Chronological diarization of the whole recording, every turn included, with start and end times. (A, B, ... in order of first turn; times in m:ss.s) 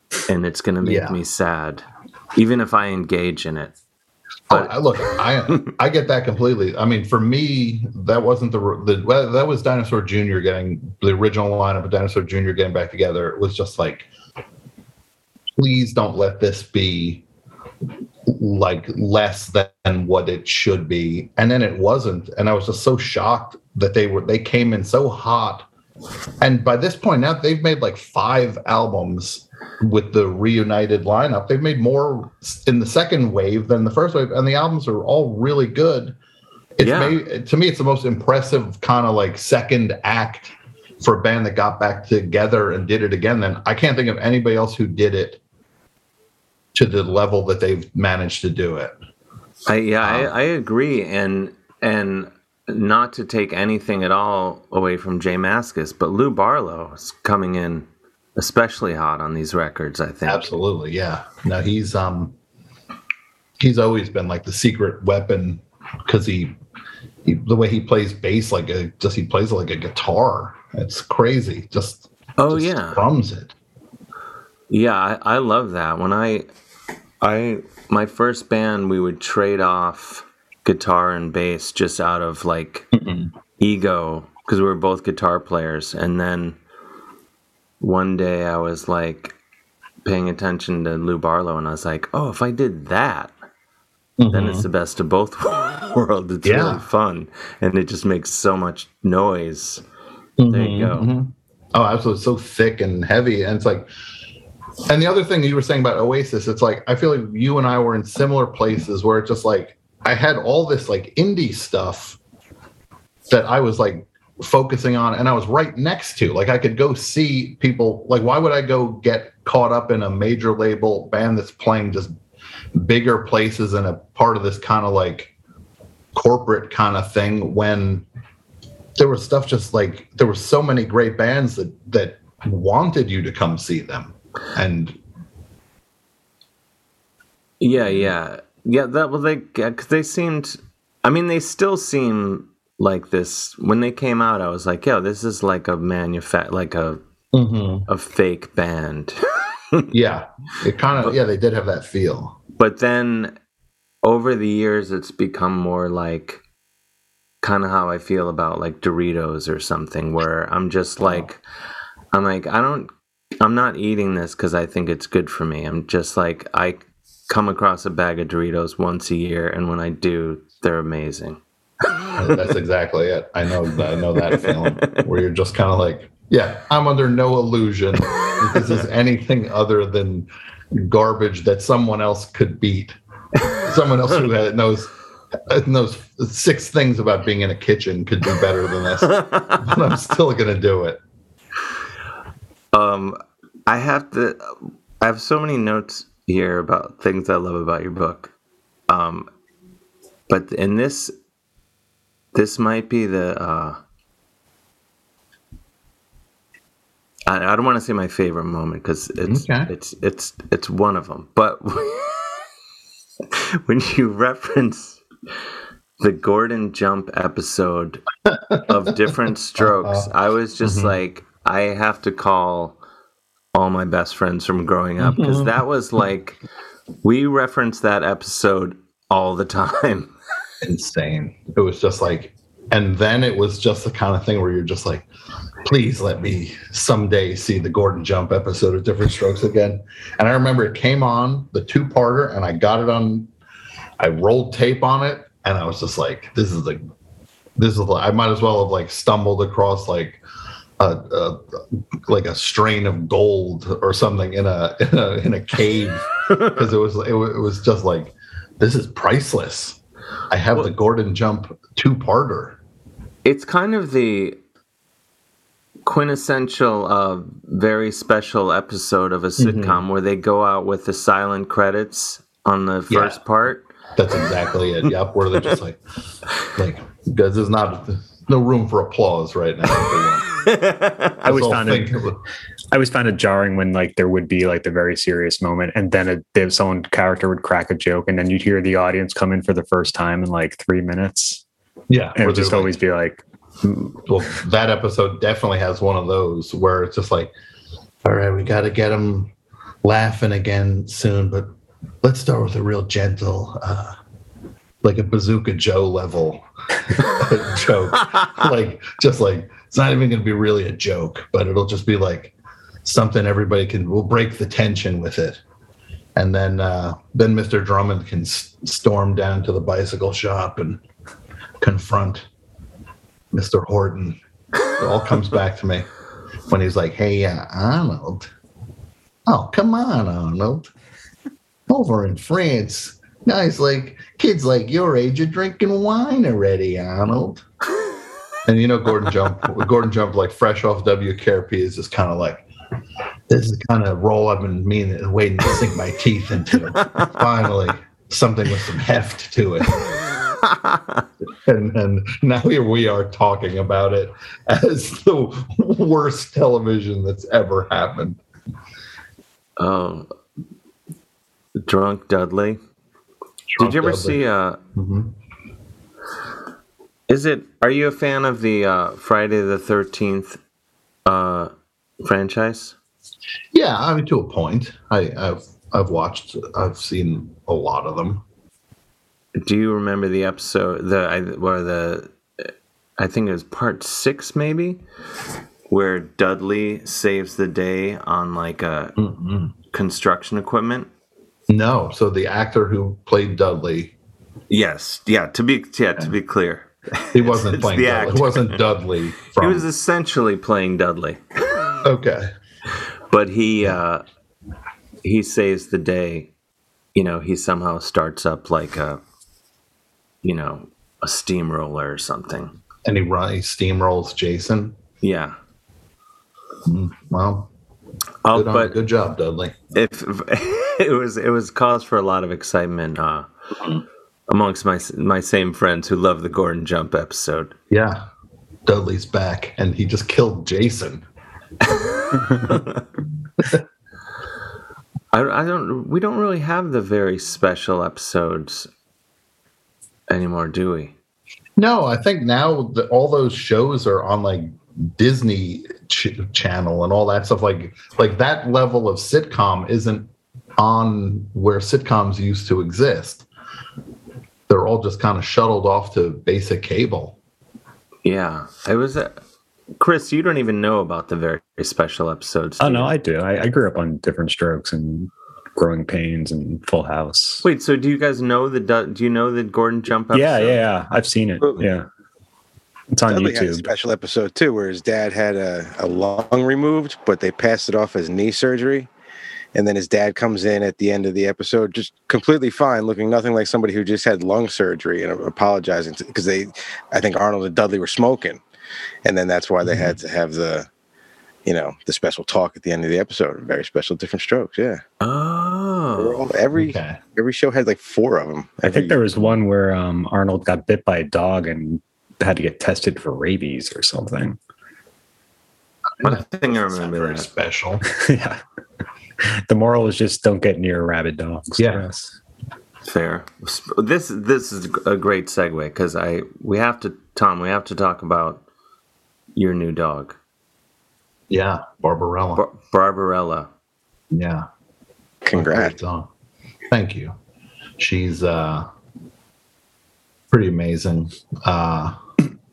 0:00.3-0:03.7 A
0:00.8-0:01.2 B
0:04.5-0:14.1 B
0:15.6-0:17.2 B
0:18.3-0:25.7 B
0:26.4-0:36.2 B
0:36.8-0:45.4 B
0:36.8-0:37.2 A
0:46.7-0:49.0 B
0:49.7-1:00.5 A
0:50.0-0:50.3 B
1:00.2-1:02.3 B
1:03.6-1:06.5 B
1:07.2-1:13.5 B
1:12.4-1:13.0 A
1:14.7-1:16.4 A
1:17.2-1:22.9 A
1:22.9-1:23.3 B
1:23.6-1:26.6 A
1:27.8-1:29.3 A
1:30.0-1:33.3 A
1:34.2-1:34.6 B
1:34.3-1:39.8 A
1:36.4-1:36.8 B
1:40.4-1:43.9 B
1:40.5-1:41.1 A
1:44.9-1:52.2 B
1:53.3-2:02.1 B
2:02.7-2:05.3 B
2:06.1-2:08.0 B
2:09.0-2:15.0 B
2:17.6-2:27.0 A
2:27.3-2:27.9 B
2:27.9-2:29.2 A
2:29.9-2:32.4 B
2:32.6-2:33.3 A
2:34.0-2:36.4 A
2:37.4-2:41.4 A
2:42.1-2:51.4 A
2:52.2-3:02.9 B
2:54.3-2:55.0 A
3:03.6-3:04.9 B
3:05.5-3:11.0 B
3:09.1-3:09.6 A
3:12.7-3:18.3 A
3:18.9-3:19.3 A
3:20.3-3:21.1 A
3:22.3-3:23.8 A
3:27.3-3:32.2 A
3:29.3-3:29.7 B
3:33.3-3:35.0 A
3:36.0-3:38.0 A
3:38.2-3:38.9 B
3:38.7-3:42.8 A
3:39.6-3:40.1 B
3:40.6-3:40.9 B
3:43.5-3:46.4 A
3:45.0-3:45.5 B
3:47.0-3:50.1 A
3:50.6-3:55.1 B
3:55.6-4:03.3 B
4:04.0-4:06.8 B
4:07.6-4:10.2 B
4:10.8-4:11.4 B
4:12.1-4:19.8 B
4:20.3-4:22.6 B
4:23.2-4:24.4 A
4:25.8-4:33.6 A
4:29.4-4:29.8 B
4:32.9-4:33.2 B
4:34.0-4:35.8 B
4:36.6-4:40.2 B
4:40.4-4:41.2 A
4:41.2-4:41.9 C
4:41.2-4:42.2 B
4:42.7-4:51.4 C
4:51.9-4:52.8 B
4:52.2-4:53.2 C
4:53.6-4:57.3 B
4:58.0-4:59.3 B
4:59.8-5:01.5 B
5:02.0-5:04.0 B
5:04.8-5:15.4 B
5:16.2-5:20.8 B
5:21.6-5:22.2 B
5:23.3-5:24.2 B
5:24.8-5:25.9 B
5:26.5-5:28.3 B
5:29.3-5:30.7 B
5:31.7-5:37.4 B
5:38.4-5:42.5 B
5:43.3-5:49.8 B
5:50.5-5:51.0 A
5:51.4-5:58.2 B
5:59.6-6:00.1 A
6:01.6-6:02.6 A
6:03.5-6:04.2 B
6:03.6-6:04.6 A
6:04.7-6:05.1 B
6:07.1-6:10.4 A
6:11.0-6:11.5 A
6:12.0-6:12.8 A
6:13.5-6:18.2 B
6:19.4-6:22.4 A
6:23.0-6:24.8 A
6:25.7-6:28.9 A
6:29.0-6:29.5 B
6:29.7-6:30.9 A
6:31.5-6:33.9 B
6:34.5-6:38.6 A
6:37.1-6:39.7 B
6:39.4-6:41.2 A
6:41.8-6:42.3 B
6:43.1-6:44.0 A
6:45.0-6:46.3 A
6:46.9-6:49.0 A
6:50.2-6:52.5 A
6:52.8-6:54.8 B
6:55.0-6:55.3 A
6:56.6-6:57.5 B
6:58.2-6:58.8 A
6:58.3-6:59.5 B
6:59.7-7:03.3 A
7:04.3-7:07.5 A
7:07.7-7:08.0 B
7:08.6-7:11.0 B
7:12.4-7:12.8 A
7:15.1-7:18.7 A
7:20.1-7:20.9 A
7:21.6-7:33.2 B
7:34.5-7:37.2 B
7:38.0-7:39.2 A
7:39.8-7:42.9 A
7:42.6-7:47.4 C
7:47.4-7:50.6 A
7:50.1-7:51.8 C
7:52.9-7:53.7 C
7:53.1-7:58.9 D
7:59.5-8:08.4 D
8:09.0-8:10.7 D
8:09.6-8:10.0 B
8:11.4-8:14.8 D
8:15.0-8:16.2 A
8:16.0-8:19.3 D
8:16.5-8:17.0 B
8:18.6-8:24.4 C
8:26.0-8:27.8 B
8:26.0-8:27.3 A
8:28.0-8:28.4 C
8:29.5-8:32.1 C
8:31.6-8:31.9 B
8:32.8-8:38.4 A
8:39.4-8:40.2 A
8:41.3-8:42.4 B
8:42.4-8:43.5 A
8:44.1-8:44.4 B
8:45.2-8:45.7 D
8:45.3-8:46.1 B
8:46.7-8:47.1 B
8:47.8-8:48.7 B
8:50.3-8:52.0 B